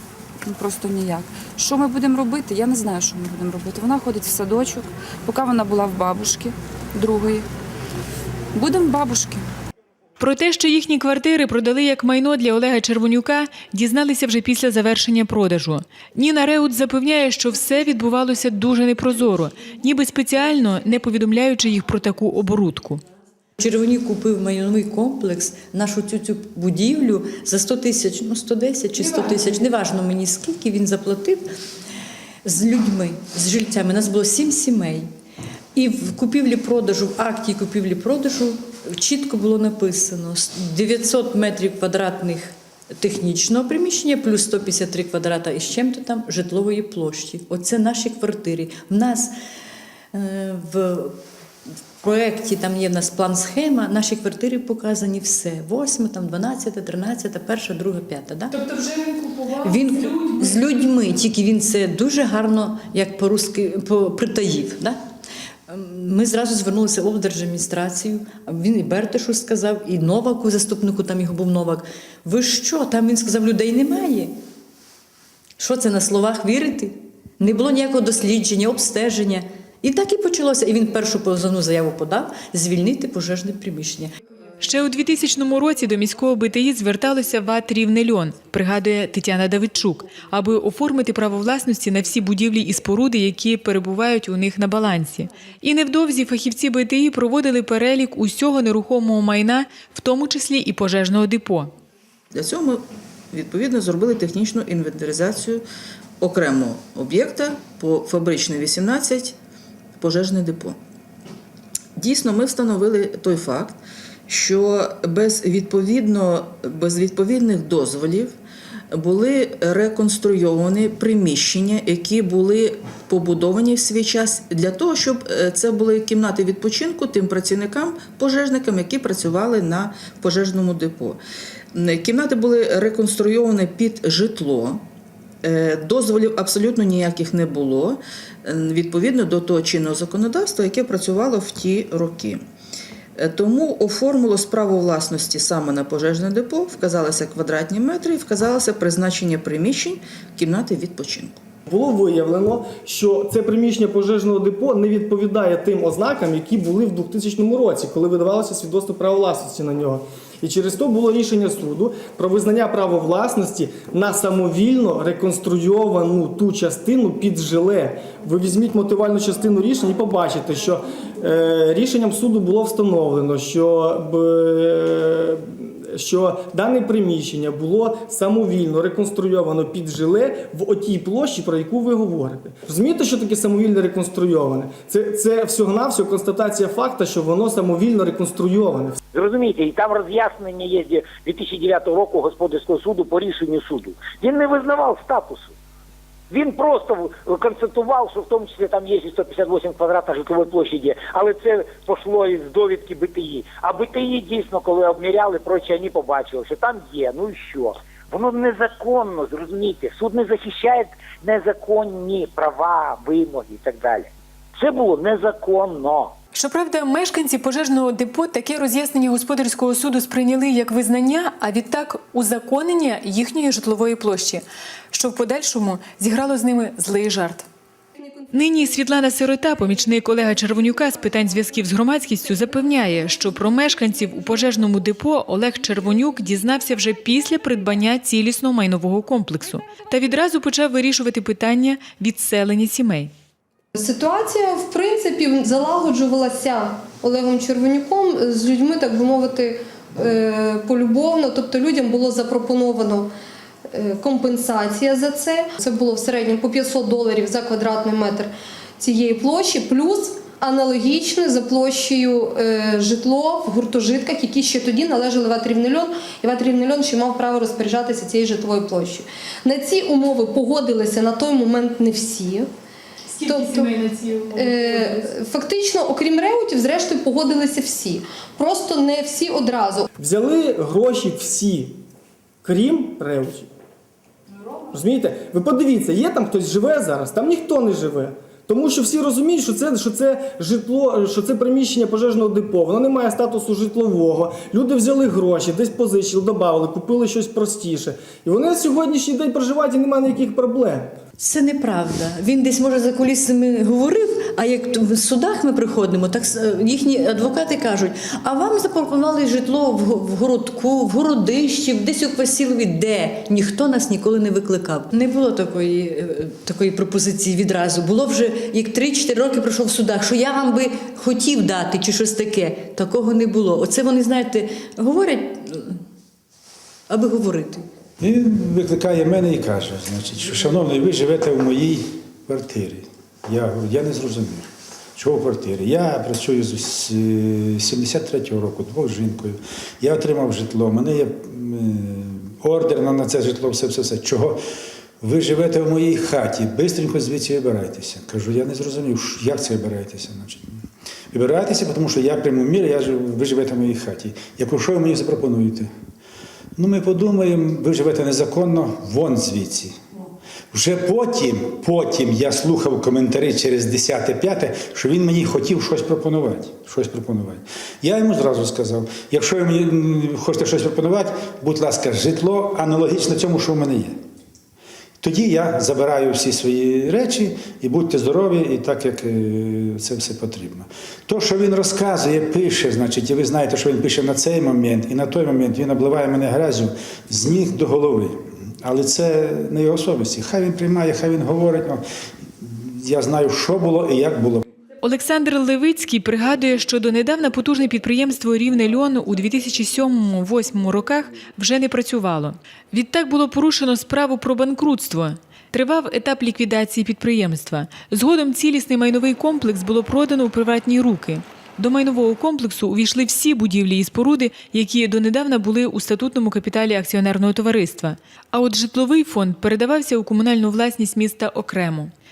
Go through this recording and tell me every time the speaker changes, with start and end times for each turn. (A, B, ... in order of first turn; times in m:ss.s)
0:00.4-0:07.5 A
0:08.5-0:09.5 A
0:10.2-0:23.0 B
0:23.6-0:31.5 C
0:32.4-0:35.1 C
0:35.8-0:49.3 C
0:50.1-0:51.2 C
0:52.0-0:58.6 C
0:58.5-1:00.7 B
0:59.6-1:05.0 C
1:05.7-1:14.4 C
1:15.6-1:24.1 C
1:24.6-1:41.7 B
1:42.3-1:45.6 D
1:46.2-1:49.4 D
1:50.0-1:50.8 D
1:52.0-1:58.4 D
1:58.9-2:11.2 D
2:11.7-2:14.8 D
2:15.4-2:22.4 D
2:23.2-2:31.4 D
2:31.7-3:09.0 E
3:09.1-3:15.6 F
3:16.3-3:36.2 F
3:36.3-3:47.5 B
3:48.0-3:48.3 G
3:48.3-4:03.1 B
4:03.8-4:13.1 G
4:13.7-4:32.5 G
4:33.1-4:35.1 B
4:33.3-4:33.7 G
4:34.3-4:39.9 G
4:40.0-4:41.8 E
4:42.4-4:43.5 E
4:44.7-5:00.9 E
5:01.2-5:25.8 C
5:26.9-5:27.6 C
5:28.0-5:44.4 H
5:45.0-5:50.6 H
5:51.1-5:55.7 H
5:56.6-5:59.8 H
6:00.5-6:14.0 H
6:15.0-6:31.8 H
6:32.4-6:34.4 H
6:34.8-7:01.9 B